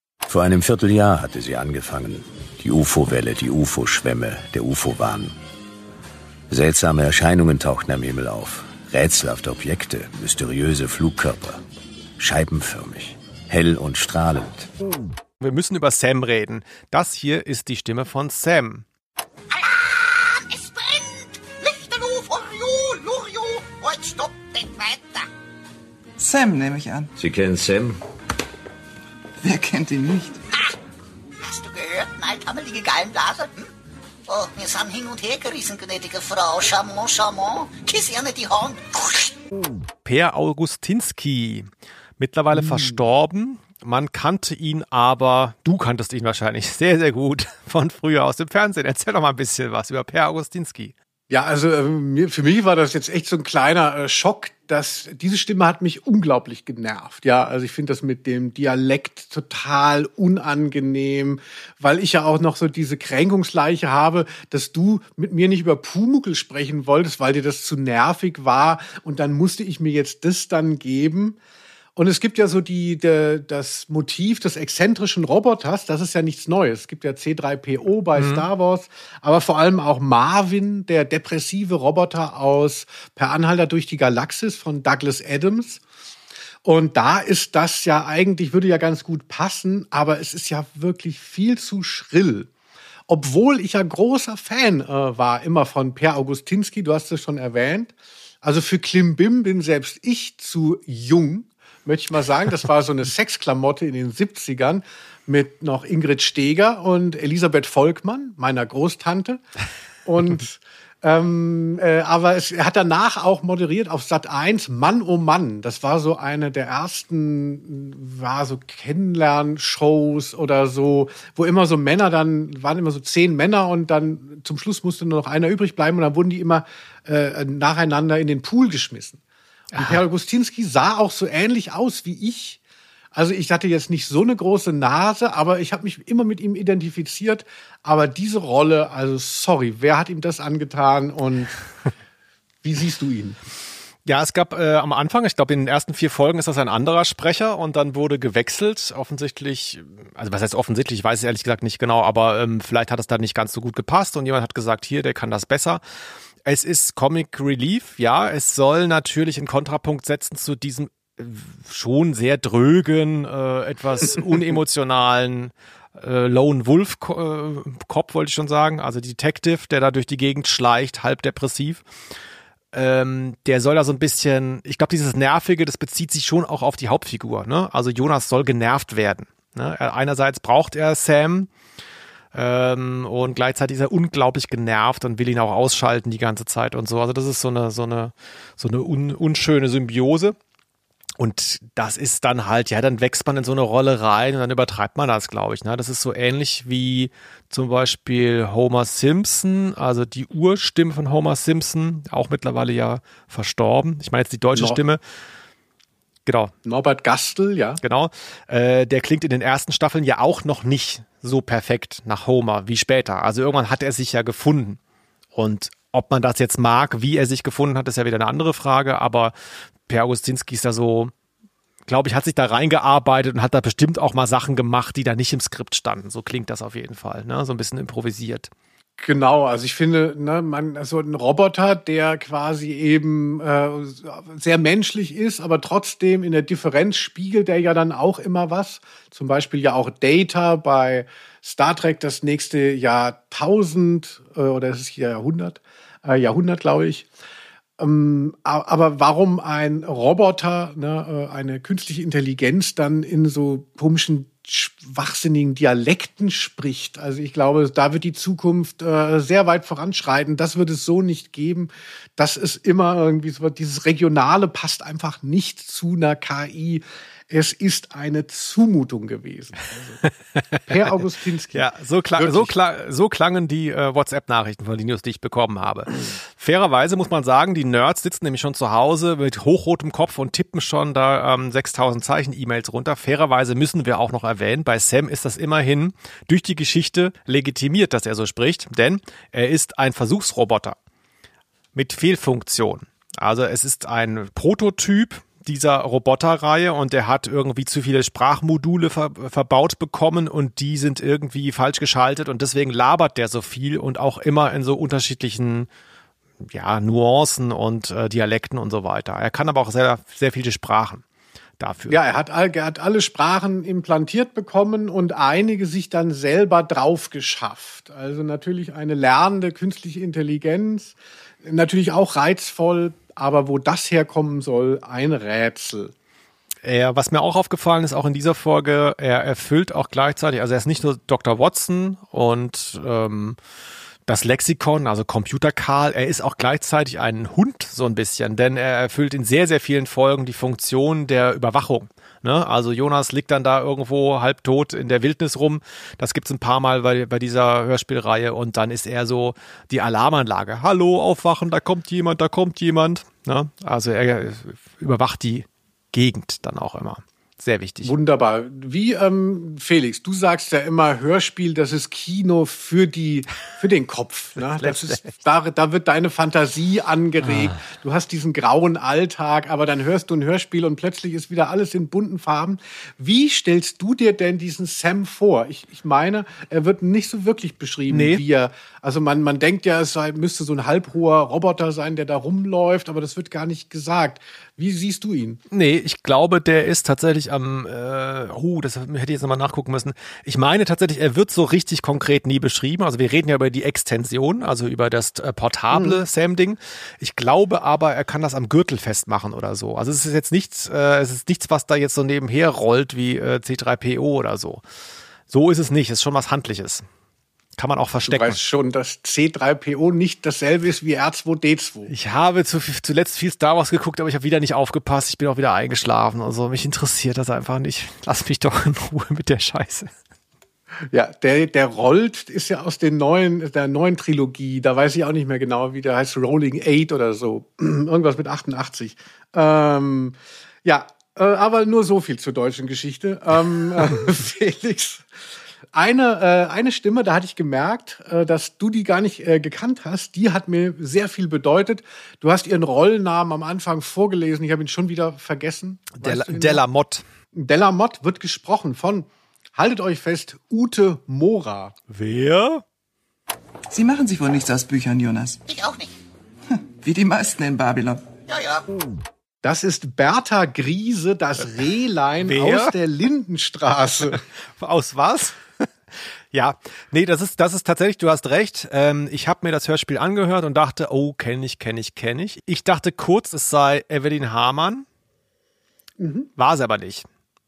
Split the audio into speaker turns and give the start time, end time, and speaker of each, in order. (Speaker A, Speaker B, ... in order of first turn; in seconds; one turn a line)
Speaker A: 0.3-5.3
Speaker A: 6.5-11.6
Speaker A: 12.2-14.7
Speaker B: 15.4-18.9
Speaker C: 19.5-25.3
Speaker D: 26.2-27.1
Speaker A: 27.2-28.0
Speaker D: 29.4-30.4
Speaker C: 31.4-33.7
Speaker C: 34.3-39.4
Speaker B: 40.0-41.7
Speaker B: 42.2-50.9
Speaker E: 42.5-43.0
Speaker E: 51.3-71.4
Speaker E: 72.0-85.8
Speaker B: 78.2-78.5
Speaker E: 86.6-92.5
Speaker E: 93.1-97.9
Speaker E: 98.4-109.4
Speaker E: 110.0-129.2
Speaker B: 129.7-130.0
Speaker E: 129.8-132.6
Speaker E: 133.1-141.6
Speaker E: 142.6-143.4
Speaker B: 144.1-155.8
Speaker B: 156.4-171.8
Speaker B: 172.7-181.5
Speaker B: 182.3-190.4
Speaker B: 191.2-205.0
Speaker E: 204.5-204.8
Speaker B: 206.3-206.5
Speaker E: 206.7-207.8
Speaker B: 207.8-214.8
Speaker B: 215.3-219.3
Speaker B: 219.9-221.1
Speaker B: 221.9-228.5
Speaker E: 229.0-247.1
Speaker E: 247.8-270.0
Speaker E: 270.7-272.5
Speaker B: 271.5-290.8
Speaker B: 291.8-305.7
Speaker B: 306.4-311.0
Speaker B: 311.6-312.0
Speaker E: 311.9-325.9
Speaker B: 326.6-333.4
Speaker B: 334.1-357.9
Speaker E: 357.8-385.4
Speaker B: 364.4-365.1
Speaker B: 367.2-367.6
Speaker B: 377.9-378.2
Speaker B: 385.5-404.6
Speaker E: 395.7-396.0
Speaker B: 405.3-406.9
Speaker B: 407.6-408.4
Speaker E: 408.1-411.9
Speaker B: 411.9-419.9
Speaker E: 420.9-435.1
Speaker E: 435.7-446.6
Speaker B: 446.0-447.0
Speaker E: 447.3-451.8
Speaker B: 451.9-452.6
Speaker D: 453.7-455.4
Speaker C: 455.5-455.9
Speaker D: 456.5-458.1
Speaker C: 458.3-458.7
Speaker E: 459.4-464.2
Speaker B: 462.2-462.8
Speaker B: 464.1-465.6
Speaker B: 466.3-474.9
Speaker E: 476.0-476.3
Speaker B: 476.4-477.1